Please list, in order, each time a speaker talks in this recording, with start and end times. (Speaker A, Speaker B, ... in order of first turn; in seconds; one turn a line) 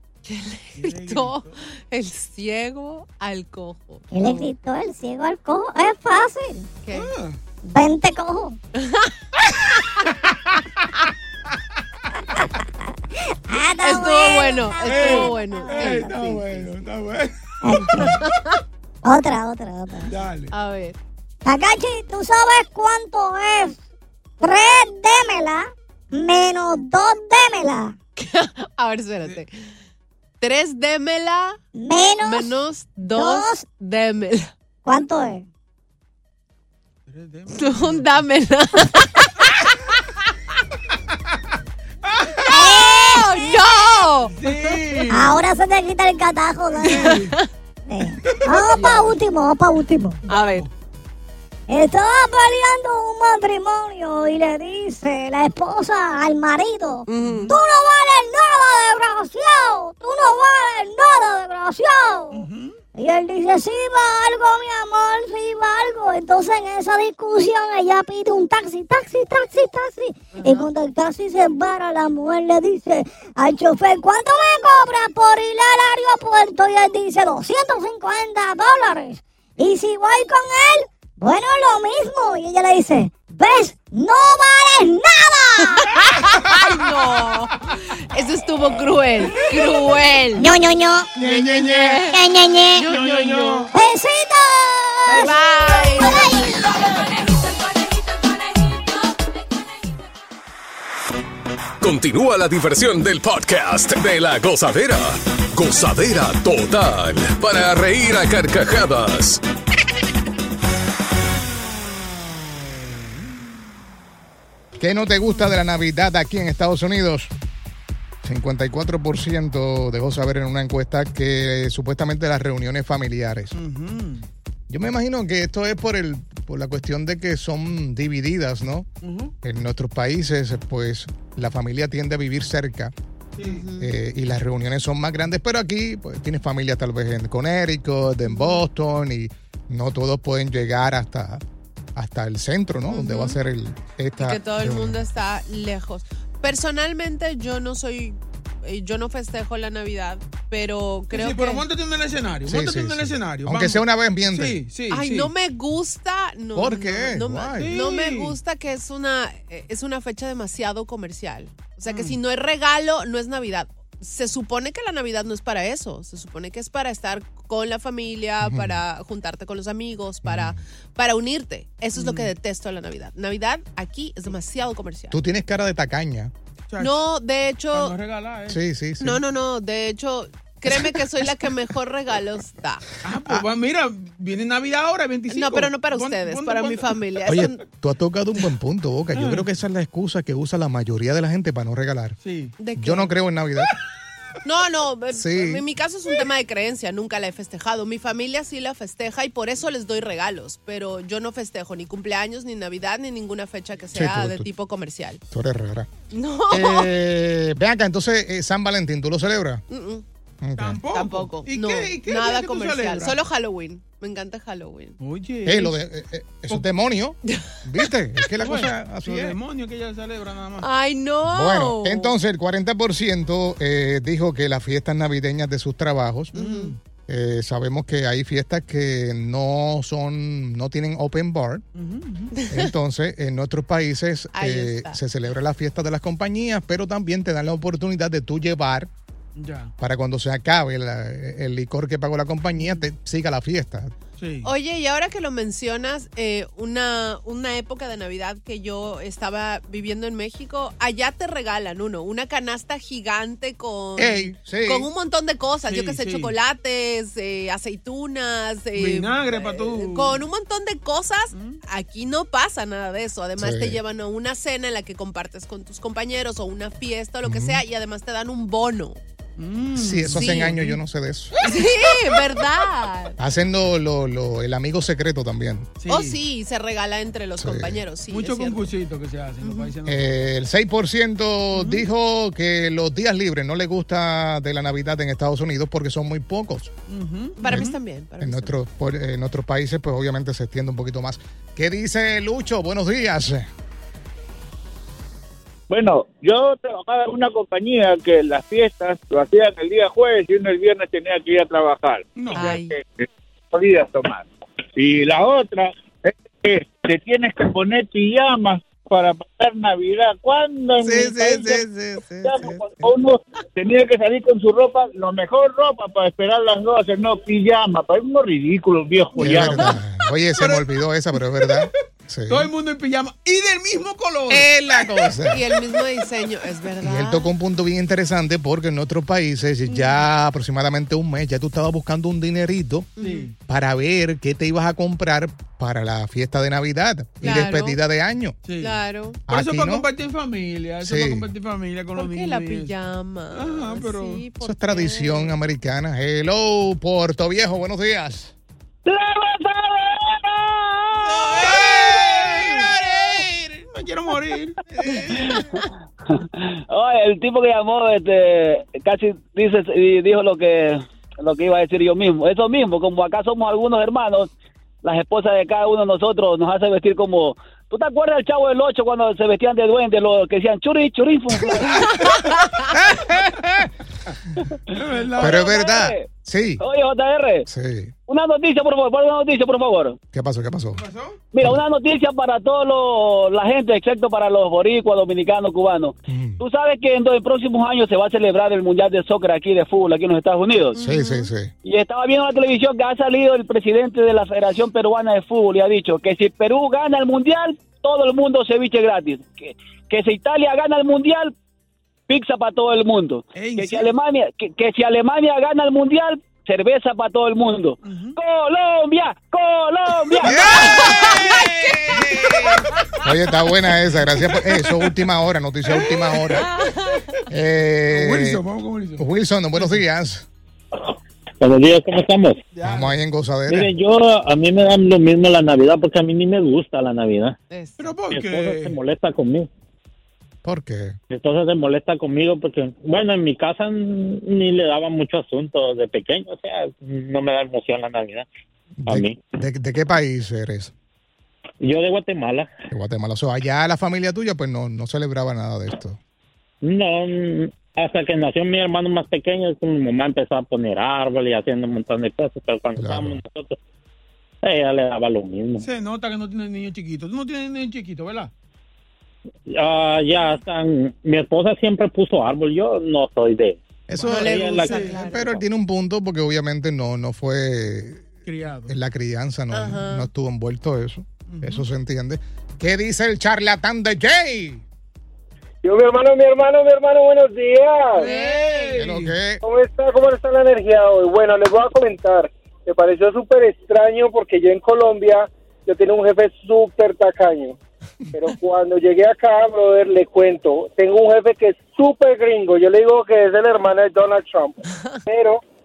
Speaker A: 0.3-4.5
Speaker B: 0.8-1.6
Speaker C: 4.1-6.7
Speaker A: 6.8-7.1
Speaker B: 6.9-7.4
Speaker C: 7.7-8.6
Speaker A: 8.8-9.1
Speaker C: 13.5-16.4
Speaker A: 13.8-16.6
Speaker B: 14.8-18.1
Speaker C: 17.6-18.2
Speaker A: 18.0-18.6
Speaker C: 19.0-20.1
Speaker B: 20.1-20.5
Speaker A: 20.5-21.0
Speaker C: 21.4-23.8
Speaker C: 24.4-27.9
Speaker A: 28.2-29.5
Speaker A: 30.4-31.6
Speaker C: 31.8-32.5
Speaker A: 32.2-34.5
Speaker C: 33.1-33.6
Speaker C: 34.9-35.4
Speaker B: 37.1-38.3
Speaker A: 37.5-39.5
Speaker C: 42.5-43.4
Speaker A: 42.5-45.0
Speaker B: 44.2-45.4
Speaker C: 45.1-47.2
Speaker B: 46.9-47.3
Speaker A: 46.9-47.4
Speaker C: 47.9-50.2
Speaker B: 48.2-49.0
Speaker A: 48.7-49.1
Speaker A: 50.3-50.7
Speaker B: 50.3-50.7
Speaker C: 51.7-85.9
Speaker A: 57.1-57.5
Speaker B: 57.2-57.5
Speaker B: 62.3-62.8
Speaker A: 70.3-70.7
Speaker A: 85.8-87.5
Speaker A: 88.1-90.5
Speaker C: 90.3-91.1
Speaker B: 91.2-92.0
Speaker A: 91.2-92.2
Speaker C: 92.1-92.9
Speaker A: 92.8-93.7
Speaker B: 92.8-93.7
Speaker C: 93.7-96.7
Speaker A: 95.1-96.3
Speaker D: 101.8-109.4
Speaker E: 114.8-117.3
Speaker E: 118.2-123.6
Speaker B: 123.5-124.3
Speaker E: 124.7-128.9
Speaker B: 129.0-129.3
Speaker E: 129.4-132.9
Speaker B: 133.4-133.7
Speaker A: 133.4-133.9
Speaker E: 133.8-141.4
Speaker A: 138.3-138.6
Speaker E: 141.9-145.0
Speaker A: 142.9-143.4
Speaker A: 144.2-151.7
Speaker B: 151.1-155.3
Speaker E: 152.5-154.6
Speaker A: 154.9-175.2
Speaker E: 156.5-157.8
Speaker B: 157.6-158.4
Speaker B: 161.9-162.2
Speaker E: 168.4-168.8
Speaker E: 170.2-170.6
Speaker B: 171.9-172.3
Speaker E: 175.1-176.3
Speaker B: 176.7-177.1
Speaker A: 176.8-178.0
Speaker B: 177.7-178.6
Speaker E: 178.5-179.2
Speaker A: 179.0-182.8
Speaker B: 183.0-187.0
Speaker A: 185.3-187.6
Speaker E: 187.3-192.2
Speaker B: 189.1-189.5
Speaker B: 192.2-192.6
Speaker A: 192.6-193.1
Speaker E: 192.8-193.7
Speaker A: 194.4-205.2
Speaker E: 195.1-195.6
Speaker E: 203.9-204.5
Speaker E: 205.3-205.9
Speaker A: 206.1-206.9
Speaker E: 206.5-209.6
Speaker A: 209.7-210.0
Speaker E: 210.4-210.8
Speaker B: 210.6-213.2
Speaker A: 210.9-215.0
Speaker B: 215.0-215.8
Speaker E: 215.4-219.4
Speaker B: 218.4-220.7
Speaker A: 220.6-222.1
Speaker E: 221.3-226.4
Speaker A: 226.3-226.8
Speaker B: 226.4-226.8
Speaker E: 227.1-231.6
Speaker B: 231.7-232.3
Speaker A: 232.4-232.7
Speaker E: 232.5-238.9
Speaker A: 234.3-235.0
Speaker B: 239.4-239.7
Speaker E: 239.8-243.9
Speaker B: 244.2-244.5
Speaker A: 244.4-269.0
Speaker E: 254.0-254.9
Speaker B: 255.6-256.4
Speaker B: 258.8-260.2
Speaker B: 261.3-261.6
Speaker E: 263.4-263.8
Speaker E: 267.2-267.6
Speaker B: 269.4-270.8
Speaker E: 269.8-271.3
Speaker A: 270.1-270.5
Speaker B: 271.4-271.7
Speaker A: 271.4-273.2
Speaker E: 273.2-275.7
Speaker B: 275.8-276.2
Speaker A: 275.9-278.7
Speaker E: 277.4-277.8
Speaker B: 278.1-280.3
Speaker A: 279.4-279.8
Speaker E: 279.9-286.7
Speaker B: 281.5-281.8
Speaker B: 286.9-287.8
Speaker A: 287.4-288.6
Speaker E: 287.5-293.5
Speaker F: 295.7-311.6
Speaker B: 302.1-302.6
Speaker A: 302.3-302.8
Speaker E: 310.8-312.9
Speaker F: 312.2-319.7
Speaker E: 319.2-322.5
Speaker B: 320.4-320.7
Speaker B: 321.4-321.7
Speaker B: 322.3-325.6
Speaker E: 324.3-325.4
Speaker A: 325.3-327.3
Speaker E: 326.8-332.9
Speaker B: 329.7-330.1
Speaker A: 333.0-333.3
Speaker B: 333.0-333.4
Speaker E: 333.5-338.4
Speaker A: 337.2-337.8
Speaker B: 338.4-342.7
Speaker A: 338.6-339.2
Speaker E: 339.3-339.9
Speaker E: 340.8-341.3
Speaker A: 341.9-345.3
Speaker B: 343.3-344.3
Speaker E: 344.4-348.3
Speaker G: 348.9-351.5
Speaker B: 350.9-355.5
Speaker G: 356.4-364.3
Speaker G: 364.8-371.8
Speaker A: 372.0-372.4
Speaker E: 372.7-373.7
Speaker B: 374.7-375.6
Speaker E: 375.2-376.6
Speaker G: 375.2-376.1
Speaker G: 376.6-377.5
Speaker E: 377.5-377.9
Speaker G: 378.1-380.0
Speaker E: 380.1-380.8
Speaker B: 380.7-381.2
Speaker G: 381.3-390.8
Speaker E: 386.1-386.4
Speaker A: 390.7-391.3
Speaker E: 390.8-391.5
Speaker G: 391.6-401.3
Speaker G: 402.1-410.4
Speaker B: 403.3-403.9
Speaker B: 407.8-408.2
Speaker B: 410.2-412.4
Speaker E: 410.2-416.5
Speaker A: 410.7-411.4
Speaker B: 415.7-416.5
Speaker A: 416.6-417.0
Speaker E: 417.3-418.4
Speaker B: 417.9-419.8
Speaker E: 419.0-420.3
Speaker H: 421.4-422.4
Speaker B: 422.5-422.9
Speaker E: 422.6-423.7
Speaker H: 423.5-427.4
Speaker A: 427.5-427.9
Speaker B: 427.8-428.8
Speaker H: 428.1-429.5
Speaker E: 430.4-431.0
Speaker H: 431.1-438.3
Speaker E: 438.8-440.7
Speaker H: 438.9-439.2
Speaker H: 441.6-442.5
Speaker E: 442.7-446.0
Speaker H: 446.6-453.6
Speaker E: 452.8-453.2
Speaker H: 454.4-455.7
Speaker B: 455.6-458.3
Speaker H: 459.5-463.6
Speaker E: 463.9-474.6
Speaker B: 464.0-465.1
Speaker A: 464.1-465.4
Speaker H: 464.2-464.9
Speaker B: 468.3-468.8
Speaker A: 469.5-470.1
Speaker B: 471.3-471.7
Speaker I: 475.6-478.0
Speaker B: 477.9-479.2
Speaker A: 478.0-478.8
Speaker E: 478.8-479.4
Speaker I: 479.4-487.6
Speaker I: 488.1-495.4